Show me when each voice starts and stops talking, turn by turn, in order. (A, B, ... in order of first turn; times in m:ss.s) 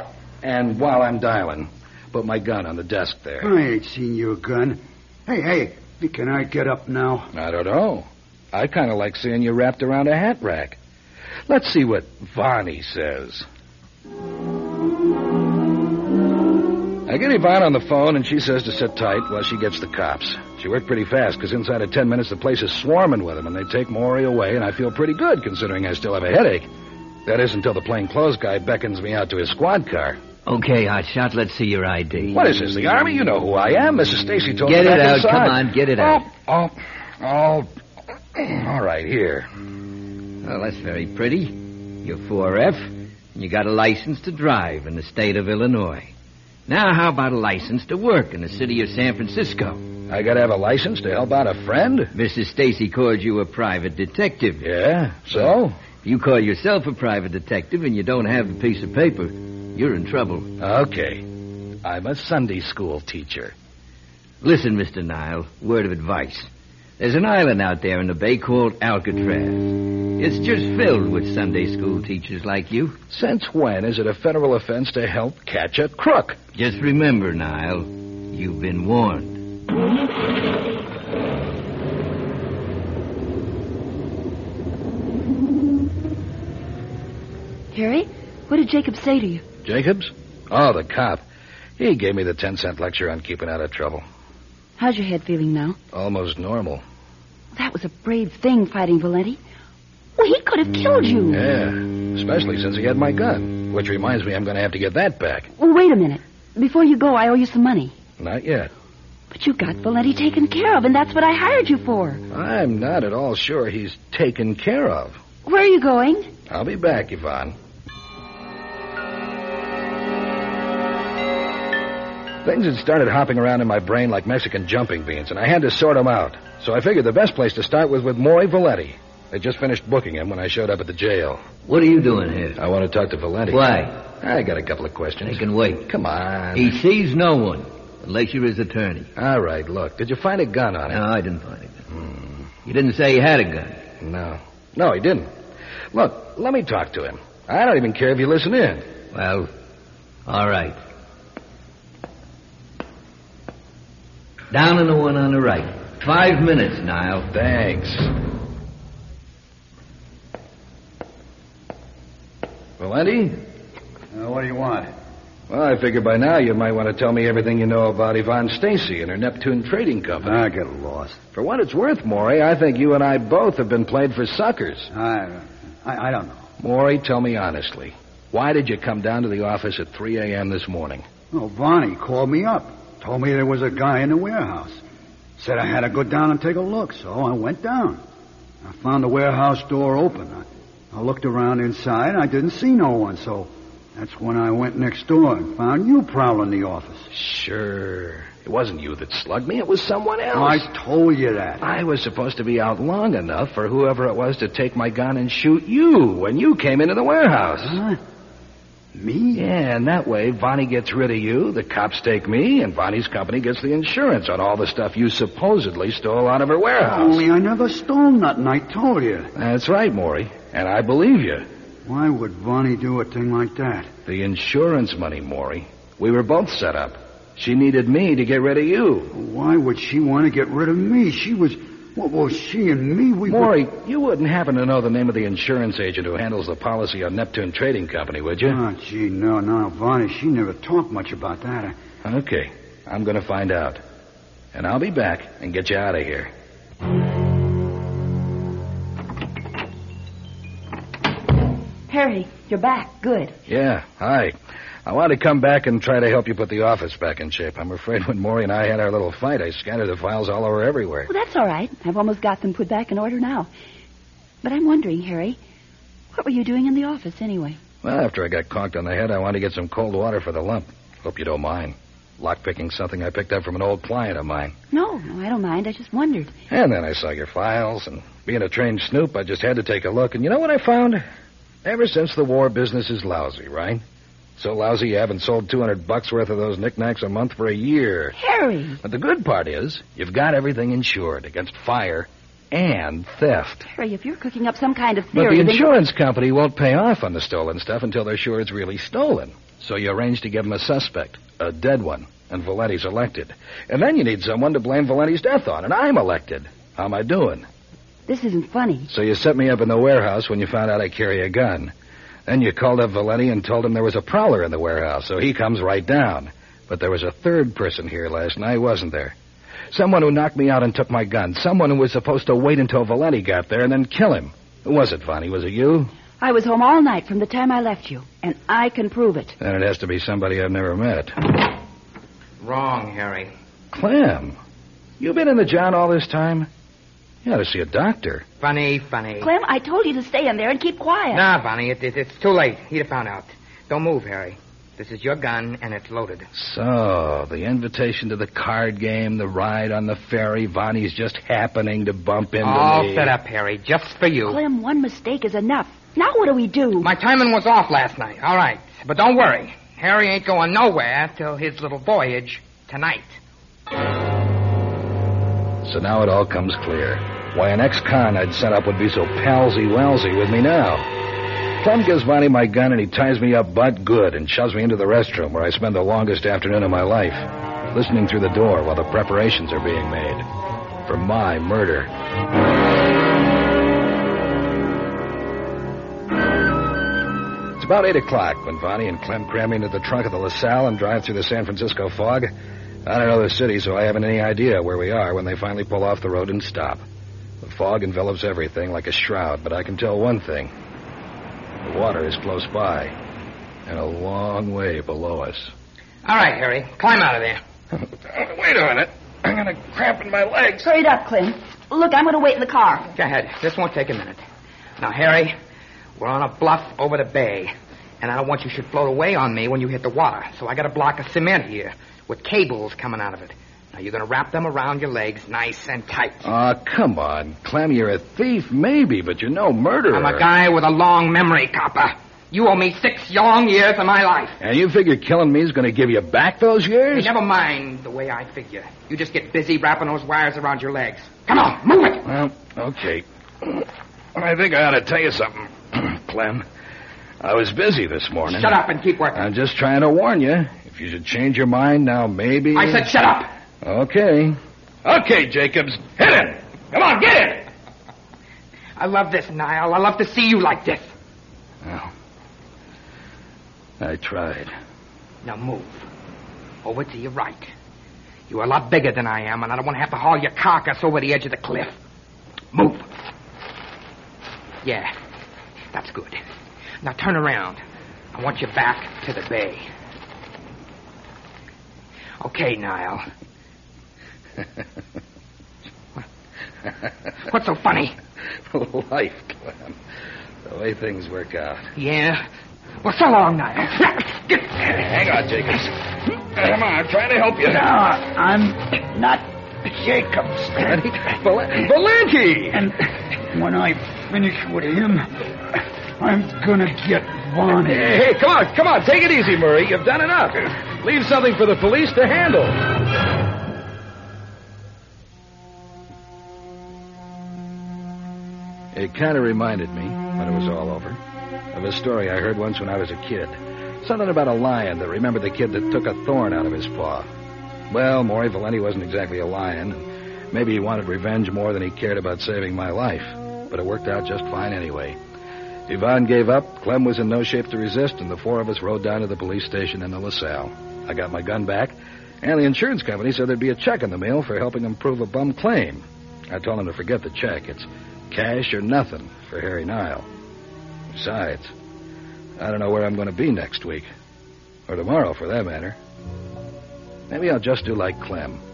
0:00.4-0:03.5 A
0:03.4-0:07.3 B
0:07.3-0:10.8 A
0:11.5-0:13.5 A
0:17.1-0:26.7 A
0:27.2-0:30.2 A
0:30.4-0:32.4 C
0:32.3-0:37.7 A
0:34.6-0:36.2 C
0:38.3-0:39.5 A
0:40.4-0:46.1 C
0:46.7-0:49.8 C
0:50.1-0:52.1 A
0:52.1-0:54.6 C
0:54.6-0:55.8 A
0:56.0-1:00.5 C
1:00.6-1:01.2 A
1:01.8-1:03.5 A
1:04.4-1:13.0 C
1:13.1-1:16.4 A
1:16.5-1:19.4 C
1:27.7-1:29.4 D
1:29.6-1:31.2 A
1:31.8-1:34.0 A
1:34.8-1:35.8 D
1:35.9-1:36.8 A
1:37.5-1:39.4 D
1:40.2-1:41.4 D
1:41.3-1:45.5 A
1:45.6-1:47.9 D
1:48.2-1:48.7 A
1:49.3-1:52.2 D
1:52.3-1:55.2 A
1:55.4-1:56.3 D
1:56.5-1:57.6 A
2:02.4-2:11.4 A
2:11.7-2:12.6 C
2:12.6-2:16.8 A
2:13.5-2:13.9 C
2:15.2-2:15.8 C
2:16.5-2:19.1 C
2:19.2-2:21.0 A
2:20.9-2:21.8 C
2:21.9-2:22.5 A
2:22.6-2:23.8 C
2:24.0-2:25.3 A
2:25.9-2:28.8 A
2:29.1-2:29.5 C
2:30.3-2:30.8 C
2:34.5-2:37.2 C
2:37.3-2:38.1 A
2:42.8-2:43.4 A
2:44.1-2:44.9 B
2:45.5-2:50.4 A
2:50.2-2:51.2 B
2:51.3-2:54.9 A
2:54.9-2:56.4 B
2:56.6-3:01.0 A
3:01.3-3:04.8 B
3:05.4-3:08.0 B
3:08.6-3:17.1 B
3:17.1-3:20.6 A
3:20.3-3:21.6 B
3:21.6-3:27.8 A
3:27.6-3:28.0 B
3:28.9-3:29.4 B
3:29.3-3:37.2 A
3:36.8-3:39.3 B
3:39.4-3:41.4 A
3:41.8-3:43.9 B
3:44.0-3:49.1 A
3:49.1-3:53.5 B
3:53.3-3:58.6 A
3:58.5-4:01.8 B
4:02.0-4:03.8 A
4:04.5-4:06.3 A
4:11.9-4:13.3 D
4:13.5-4:14.3 A
4:14.8-4:21.1 A
4:21.1-4:23.5 D
4:24.4-4:25.4 D
4:26.1-4:27.6 D
4:27.8-4:34.5 A
4:34.7-4:36.3 D
4:36.5-4:41.0 A
4:41.6-4:43.8 A
4:44.4-4:48.2 A
4:48.2-4:48.8 D
4:48.8-4:53.7 A
4:53.7-4:55.7 D
4:55.1-5:07.5 A
5:08.1-5:08.9 D
5:08.9-5:11.7 A
5:12.3-5:19.2 A
5:19.7-5:25.9 A
5:26.2-5:29.4 D
5:29.4-5:31.1 A
5:32.4-5:33.3 E
5:33.7-5:34.4 A
5:35.0-5:36.5 A
5:37.2-5:38.2 A
5:38.4-5:39.3 E
5:39.2-5:41.2 D
5:41.1-5:46.3 E
5:46.3-5:53.1 A
5:52.4-5:54.4 E
5:54.2-5:56.9 D
5:56.8-6:03.2 E
6:05.6-6:10.9 A
6:11.6-6:20.2 A
6:20.8-6:21.9 A
6:27.6-6:32.3 A
6:32.8-6:36.8 A
6:37.4-6:40.5 A
6:41.6-6:42.9 A
6:43.7-6:45.5 A
6:46.0-6:47.4 E
6:48.0-6:50.7 A
6:50.6-6:52.9 D
6:52.9-6:54.2 E
6:54.8-6:55.3 E
6:56.0-7:06.3 E
7:06.2-7:10.2 A
7:09.9-7:14.4 E
7:14.4-7:17.1 A
7:16.9-7:22.0 E
7:22.0-7:26.4 A
7:27.2-7:28.5 A
7:28.2-7:29.3 E
7:29.1-7:32.9 A
7:32.5-7:33.3 E
7:33.6-7:37.1 A
7:36.7-7:37.4 E
7:38.8-7:40.9 E
7:41.6-7:41.9 A
7:43.8-7:44.5 A
7:45.2-7:45.8 E
7:46.6-7:47.5 E
7:48.3-7:51.7 E
7:52.5-7:52.8 E
7:54.6-7:54.9 E
7:55.7-7:56.2 E
7:56.8-7:57.6 E
7:58.1-7:59.6 E
8:02.2-8:03.0 E
8:07.2-8:07.9 E
8:08.5-8:09.8 A
8:10.4-8:11.7 A
8:11.8-8:12.2 E
8:12.8-8:14.6 E
8:14.6-8:17.7 A
8:17.4-8:20.8 B
8:20.6-8:22.6 A
8:22.5-8:28.0 B
8:27.6-8:32.6 A
8:38.7-8:41.0 A
8:41.5-8:47.1 A
8:47.7-8:55.0 A
8:55.7-9:10.1 A
9:10.9-9:11.5 A
9:12.4-9:13.9 A
9:14.7-9:15.8 A
9:17.1-9:18.4 A